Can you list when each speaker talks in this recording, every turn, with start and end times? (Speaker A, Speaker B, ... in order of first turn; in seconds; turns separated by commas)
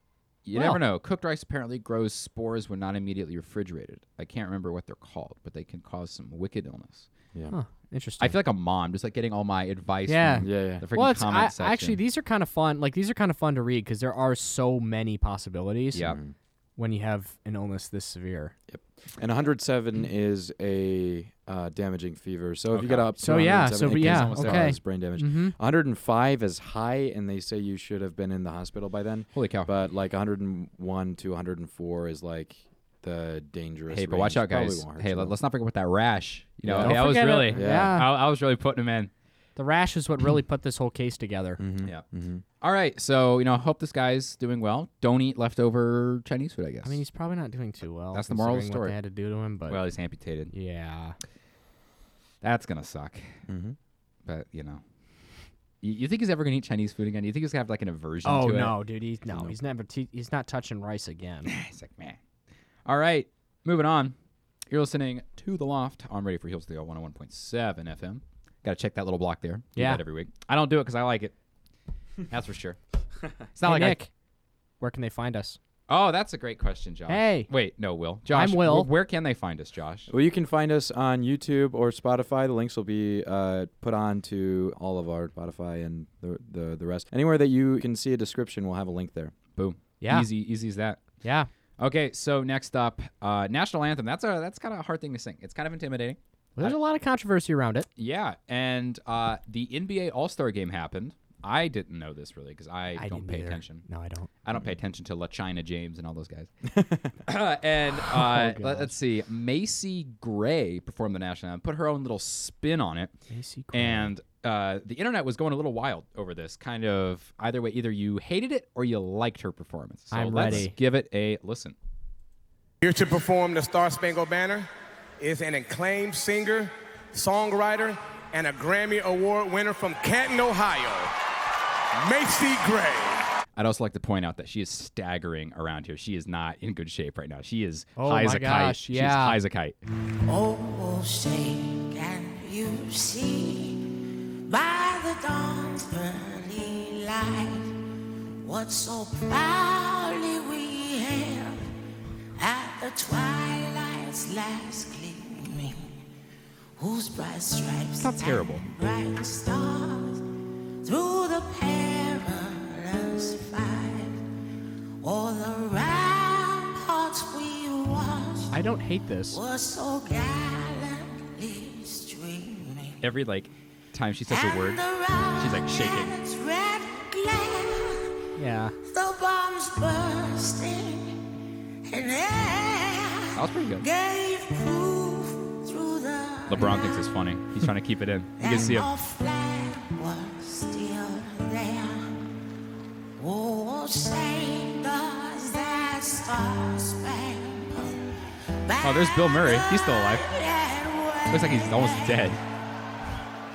Speaker A: 0.4-7.1, Speaker B: 0.5-0.8, Speaker B: 7.5-8.3, Speaker A: 8.2-12.0, Speaker B: 10.1-16.1, Speaker C: 10.4-10.8, Speaker C: 16.0-16.3, Speaker B: 16.8-18.5, Speaker C: 18.7-35.3, Speaker A: 22.7-23.1, Speaker B: 23.2-25.5, Speaker A: 23.9-24.8, Speaker A: 29.3-29.7, Speaker A: 33.9-39.1, Speaker C: 36.6-38.0, Speaker B: 36.8-38.1, Speaker B: 39.5-41.6, Speaker C: 41.6-42.4, Speaker A: 42.6-47.0, Speaker B: 46.8-49.8, Speaker A: 48.1-48.9, Speaker A: 49.7-50.5, Speaker B: 50.5-51.1, Speaker A: 52.4-53.3, Speaker C: 53.5-53.8, Speaker A: 54.2-54.8, Speaker A: 55.8-58.8, Speaker B: 58.2-61.5, Speaker A: 61.5-62.2, Speaker A: 62.9-64.1, Speaker A: 64.7-71.3, Speaker B: 69.8-70.0, Speaker A: 72.3-72.8, Speaker A: 73.5-74.0, Speaker B: 73.6-74.1, Speaker B: 74.8-75.6, Speaker A: 75.9-80.1, Speaker B: 77.1-77.5, Speaker B: 78.3-78.9, Speaker C: 80.1-89.3, Speaker A: 89.5-91.0, Speaker B: 90.0-90.3, Speaker B: 91.2-91.5, Speaker A: 91.8-96.8, Speaker B: 96.6-97.9, Speaker A: 98.0-103.8, Speaker B: 103.0-104.3, Speaker A: 104.4-106.5, Speaker A: 107.2-113.1, Speaker B: 108.1-108.9, Speaker B: 113.3-114.1, Speaker A: 113.7-121.7, Speaker B: 120.1-120.8, Speaker D: 122.8-124.7, Speaker D: 125.2-131.1, Speaker D: 131.9-133.2, Speaker A: 133.6-139.8, Speaker B: 138.0-139.4, Speaker E: 140.2-147.8, Speaker E: 148.4-151.7, Speaker E: 152.3-156.0, Speaker E: 156.8-160.3, Speaker A: 158.0-158.6, Speaker E: 160.8-164.2, Speaker E: 165.0-168.6, Speaker B: 168.5-169.4, Speaker E: 169.3-173.0, Speaker A: 173.0-174.8, Speaker E: 174.3-178.1, Speaker A: 175.4-176.1, Speaker B: 178.3-178.7, Speaker E: 178.8-181.2, Speaker E: 181.9-187.1, Speaker A: 183.3-183.8, Speaker A: 186.5-188.9, Speaker E: 188.4-192.1, Speaker E: 193.2-202.4, Speaker A: 198.8-200.3, Speaker A: 201.3-202.4